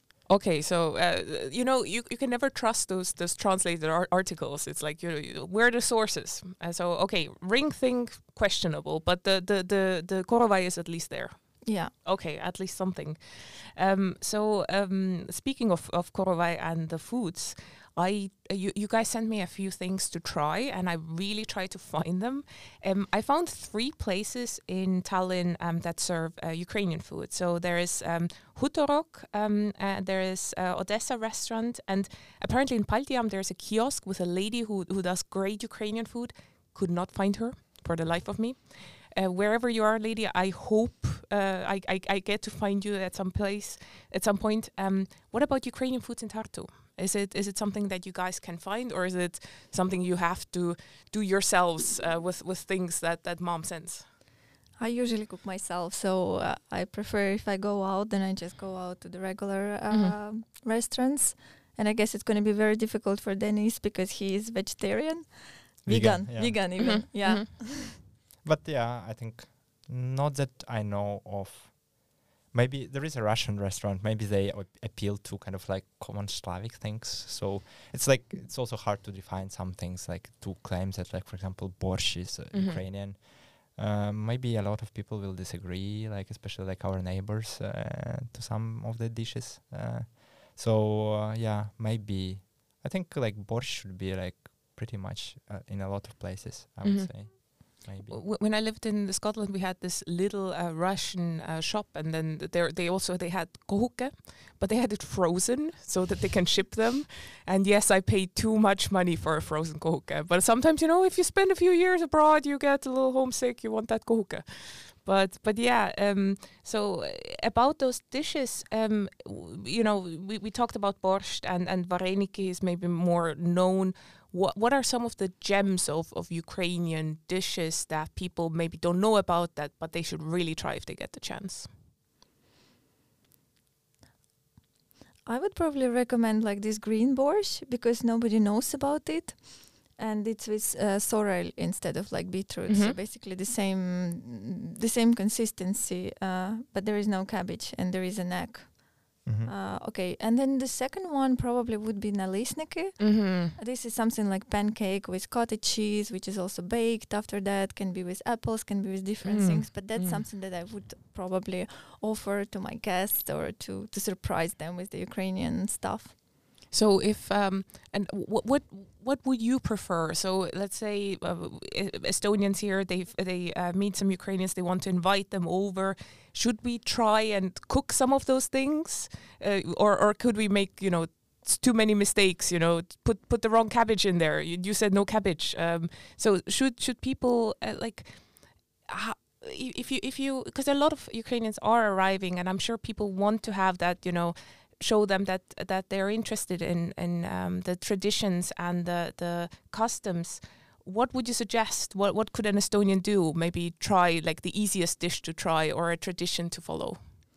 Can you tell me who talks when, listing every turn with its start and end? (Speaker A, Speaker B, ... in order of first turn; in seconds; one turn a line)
Speaker A: 0.2-54.0
Speaker B: 11.6-11.9
Speaker B: 54.8-67.9
Speaker A: 59.9-60.1
Speaker C: 65.8-67.0
Speaker A: 66.8-67.5
Speaker C: 68.4-98.2
Speaker A: 82.5-82.8
Speaker A: 96.8-131.7
Speaker B: 135.2-166.1
Speaker A: 142.7-143.0
Speaker C: 149.2-149.5
Speaker A: 153.0-153.5
Speaker A: 159.2-160.2
Speaker A: 166.7-207.0